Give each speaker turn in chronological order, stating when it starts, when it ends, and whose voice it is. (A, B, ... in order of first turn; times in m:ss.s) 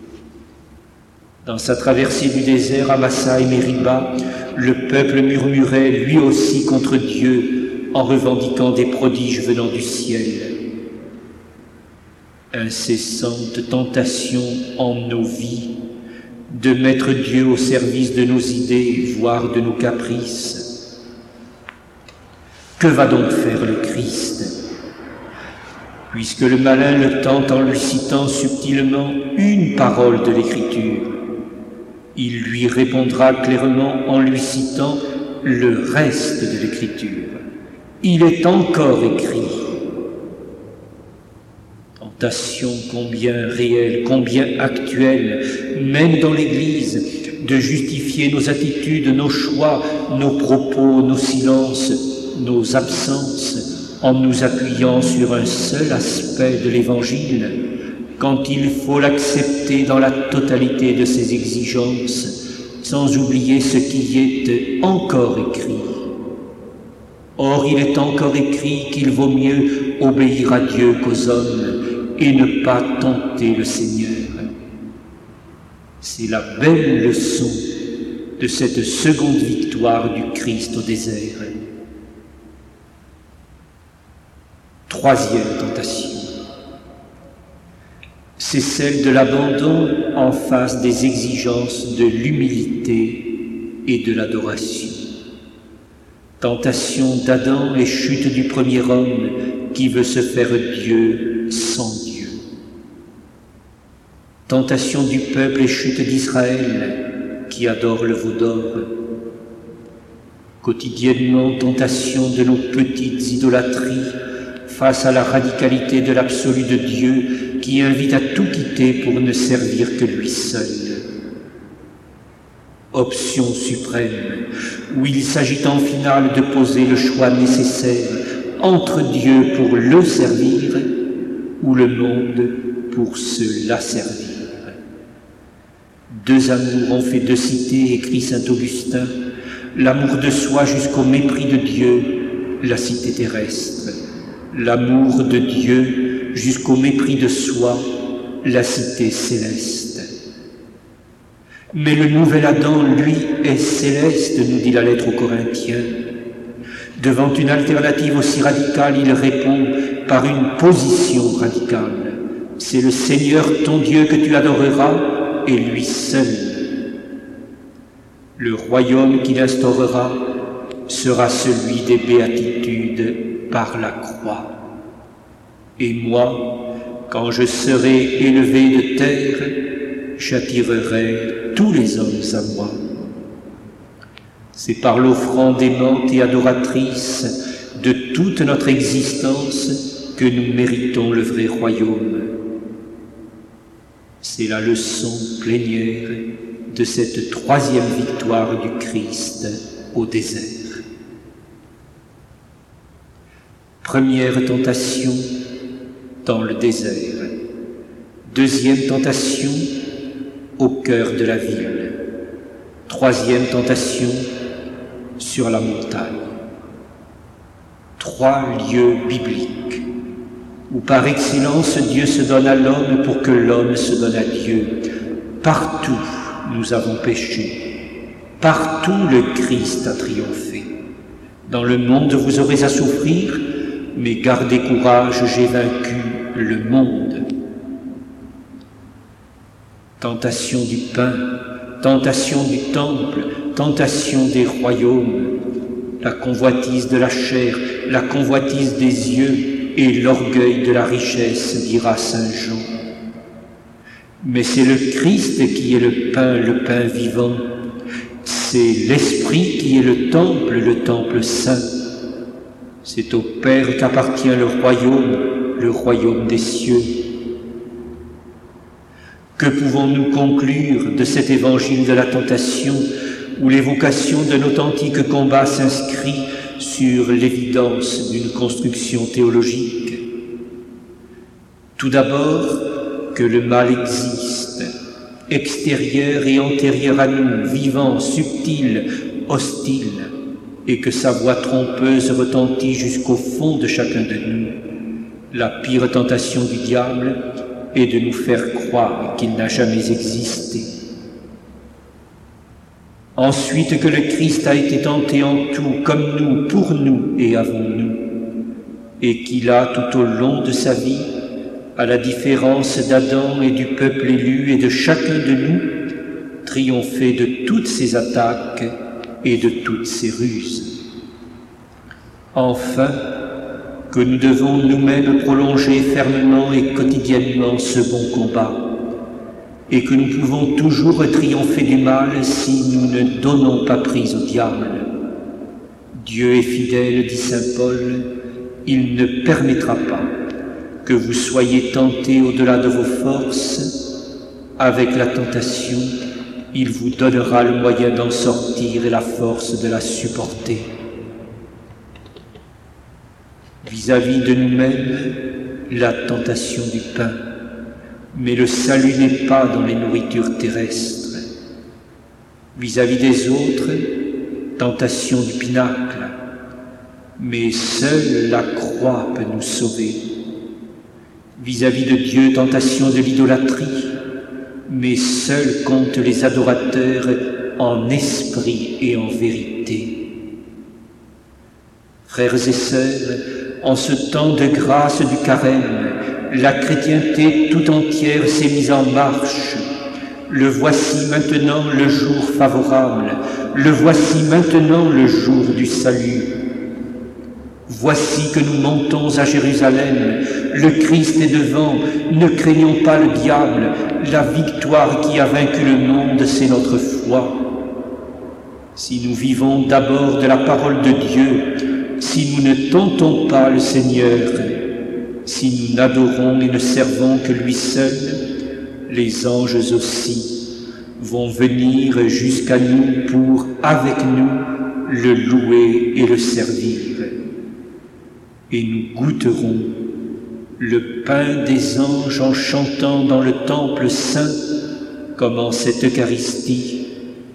0:01.4-0:10.5 A
0:12.5-0:15.7 A
0:16.5-0:20.7 A
0:22.8-0:24.5 A
0:26.1-0:31.1 A
0:32.1-0:37.4 A
0:38.0-0:39.7 A
0:42.0-0:57.5 A
0:58.2-1:06.0 A
1:07.4-1:14.5 A
1:16.0-1:17.7 A
1:18.4-1:21.5 A
1:24.9-1:26.3 A
1:28.4-1:33.3 A
1:33.8-1:35.1 A
1:36.4-1:42.4 A
1:44.5-1:48.9 A
1:50.6-2:01.0 A
2:02.9-2:10.9 A
2:11.6-2:14.8 A
2:16.1-2:19.1 A
2:19.7-2:24.0 A
2:24.5-2:27.8 A
2:28.4-2:30.1 A
2:31.7-2:35.9 A
2:37.0-2:46.7 A
2:48.4-2:50.3 A
2:50.9-2:54.5 A
2:55.8-2:59.6 A
3:00.2-3:02.8 A
3:04.5-3:12.3 A
3:14.2-3:20.8 A
3:23.8-3:25.3 A
3:26.2-3:27.3 A
3:28.3-3:29.7 A
3:30.6-3:32.0 A
3:32.9-3:34.2 A
3:35.2-3:36.3 A
3:38.0-3:39.8 A
3:40.7-3:44.8 A
3:45.4-3:47.6 A
3:48.4-3:50.7 A
3:51.5-3:53.4 A
3:53.9-3:57.2 A
4:00.0-4:01.3 A
4:01.8-4:05.3 A
4:06.0-4:12.7 A
4:14.2-4:17.5 A
4:18.2-4:21.6 A
4:22.8-4:27.0 A
4:29.4-4:40.0 A
4:41.8-4:44.7 A
4:45.3-4:50.1 A
4:50.6-4:54.6 A
4:55.3-4:57.2 A
4:57.7-5:00.7 A
5:03.2-5:08.0 A
5:09.0-5:11.1 A
5:11.8-5:15.7 A
5:16.4-5:20.7 A
5:22.3-5:23.0 A
5:23.9-5:28.6 A
5:29.7-5:34.9 A
5:35.9-5:38.0 A
5:38.6-5:40.1 A
5:40.8-5:43.9 A
5:44.6-5:45.9 A
5:46.5-5:50.7 A
5:53.6-5:57.2 A
5:58.1-6:01.2 A
6:02.6-6:03.9 A
6:04.6-6:06.2 A
6:07.2-6:10.0 A
6:11.4-6:14.0 A
6:14.7-6:20.0 A
6:22.1-6:29.6 A
6:30.3-6:36.3 A
6:37.7-6:47.4 A
6:48.8-6:54.5 A
6:55.2-6:58.2 A
6:58.9-7:07.2 A
7:08.5-7:09.7 A
7:10.6-7:14.4 A
7:15.2-7:16.9 A